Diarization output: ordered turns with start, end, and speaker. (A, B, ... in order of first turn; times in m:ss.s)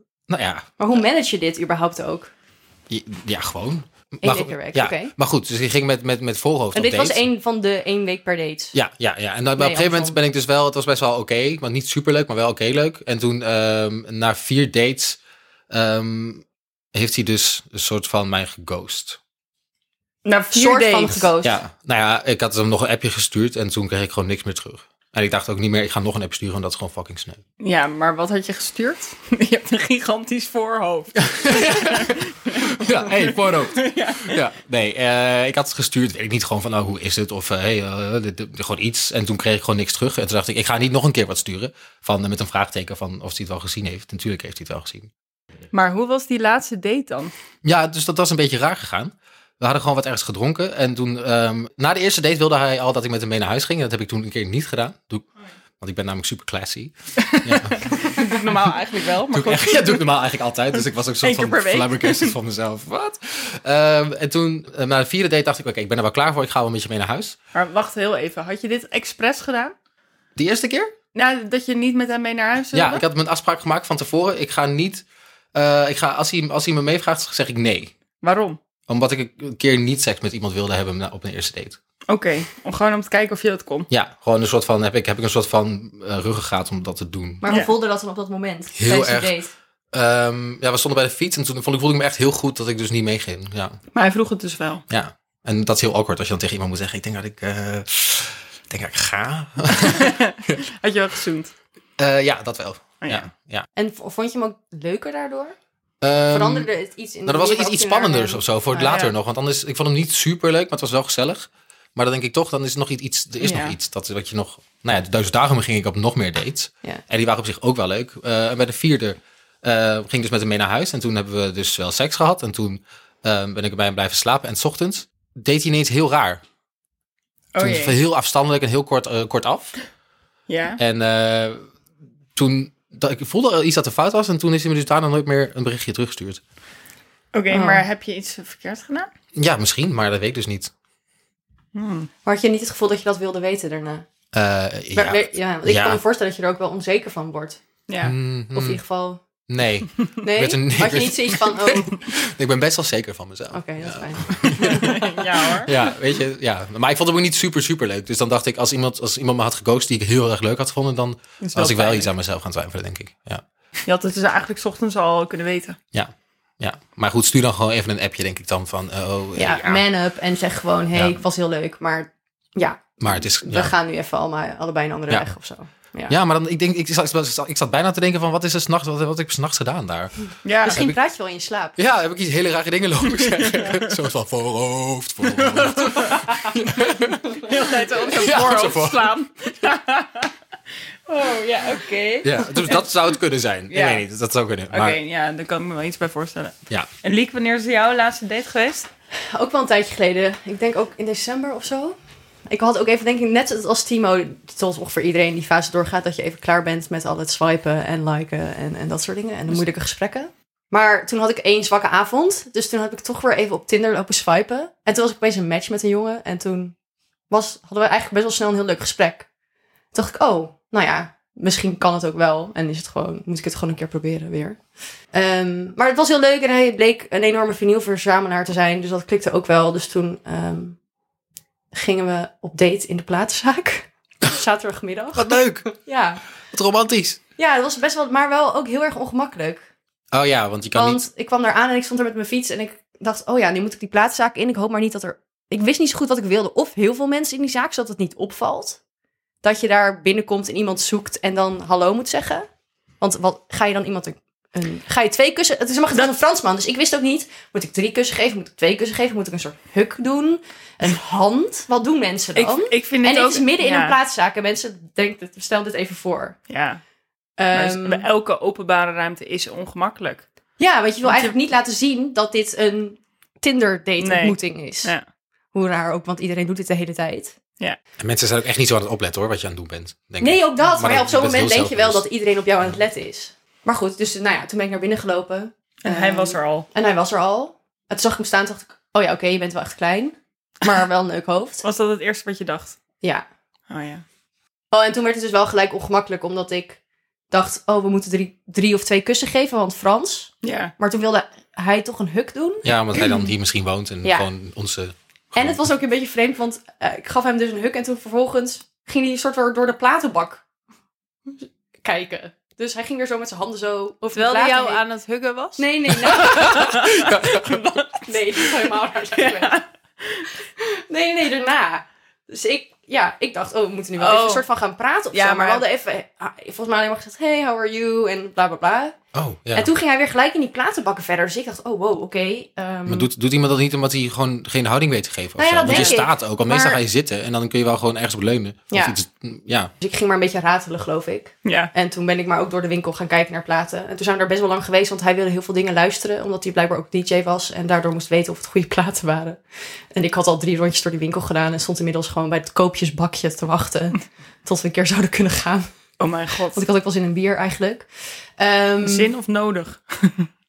0:00.3-0:00.7 A
0:00.8-0:02.3 B
0:02.9-0:07.2 A
0:04.2-0:05.1 B
0:06.7-0:08.8 B
0:08.7-0:15.2 A
0:09.6-0:10.2 B
0:15.7-0:19.2 A
0:20.2-0:21.3 C
0:20.5-0:21.6 B
0:21.4-0:27.4 A
0:27.6-0:34.4 C
0:31.2-0:45.1 A
0:45.7-0:47.3 C
0:47.6-0:55.2 A
0:55.8-0:58.5 A
0:57.2-1:00.1 C
0:59.3-1:07.4 A
1:01.2-1:02.4 C
1:07.5-1:09.8 C
1:10.4-1:10.9 A
1:11.1-1:13.0 C
1:12.7-1:17.9 A
1:18.2-1:18.6 C
1:18.9-1:21.8 A
1:22.1-1:23.9 C
1:23.9-1:27.4 A
1:27.4-1:29.5 B
1:27.4-1:27.7 C
1:28.8-1:29.4 A
1:29.9-1:33.8 A
1:33.9-1:34.8 C
1:34.9-1:40.6 A
1:39.8-1:41.5 C
1:42.0-1:43.7 A
1:43.0-1:43.3 C
1:43.8-1:45.6 B
1:46.0-1:46.7 A
1:46.3-1:49.0 B
1:47.2-2:06.4 A
1:48.8-1:49.1 C
1:53.4-1:53.8 C
2:07.5-2:08.0 C
2:07.6-2:09.8 A
2:10.5-2:10.8 C
2:10.8-2:11.6 A
2:12.3-2:16.4 A
2:17.3-2:19.1 C
2:17.5-2:17.8 B
2:19.3-2:20.7 A
2:21.8-2:22.1 C
2:22.2-2:24.1 B
2:24.3-2:26.0 A
2:24.9-2:27.6 B
2:27.9-2:28.2 C
2:28.0-2:28.8 A
2:28.5-2:29.2 B
2:29.5-2:43.4 A
2:30.2-2:32.0 B
2:33.5-2:35.3 B
2:34.6-2:35.7 C
2:41.4-2:42.1 C
2:43.8-2:45.8 C
2:45.9-2:49.8 A
2:49.4-2:56.1 B
2:53.0-2:53.7 A
2:56.1-3:00.9 A
3:00.4-3:00.8 C
3:00.6-3:01.8 B
3:01.8-3:09.1 A
3:03.3-3:03.9 C
3:05.2-3:06.4 C
3:07.3-3:10.3 C
3:11.1-3:12.8 C
3:12.2-3:15.0 A
3:13.7-3:14.0 C
3:14.7-3:18.9 C
3:19.3-3:36.7 B
3:37.3-3:39.3 B
3:39.9-3:44.6 B
3:45.1-3:50.8 B
3:51.7-3:56.2 B
3:55.2-3:55.7 A
3:56.5-3:57.2 A
3:57.4-3:59.6 B
4:00.1-4:01.1 A
4:00.8-4:08.8 B
4:09.4-4:12.5 B
4:13.0-4:26.4 B
4:22.3-4:24.0 C
4:26.5-4:26.8 C
4:27.4-4:28.1 B
4:27.5-4:30.3 C
4:30.6-4:34.9 B
4:31.0-4:31.3 C
4:34.0-4:35.1 C
4:35.5-4:37.4 B
4:38.0-4:42.0 A
4:40.2-4:51.6 B
4:45.8-4:46.7 C
4:51.6-4:52.8 C
4:53.0-4:53.3 B
4:53.7-4:54.0 C
4:54.7-4:56.8 B
4:57.3-5:03.3 B
5:00.4-5:00.7 C
5:02.6-5:05.6 A
5:05.3-5:10.4 B
5:11.4-5:14.8 B
5:14.1-5:18.5 C
5:15.6-5:16.8 B
5:16.0-5:17.6 A
5:18.0-5:19.6 B
5:19.1-5:20.3 C
5:20.6-5:29.0 B
5:24.0-5:24.4 C
5:25.1-5:25.6 C
5:29.1-5:29.7 A
5:29.6-5:33.1 B
5:32.8-5:39.7 A
5:35.4-5:36.8 B
5:35.7-5:36.0 C
5:38.7-5:39.0 B
5:39.8-5:49.4 B
5:41.4-5:41.7 C
5:49.9-5:55.7 B
5:56.0-5:56.6 C
5:56.5-5:59.1 B
5:58.8-6:00.3 C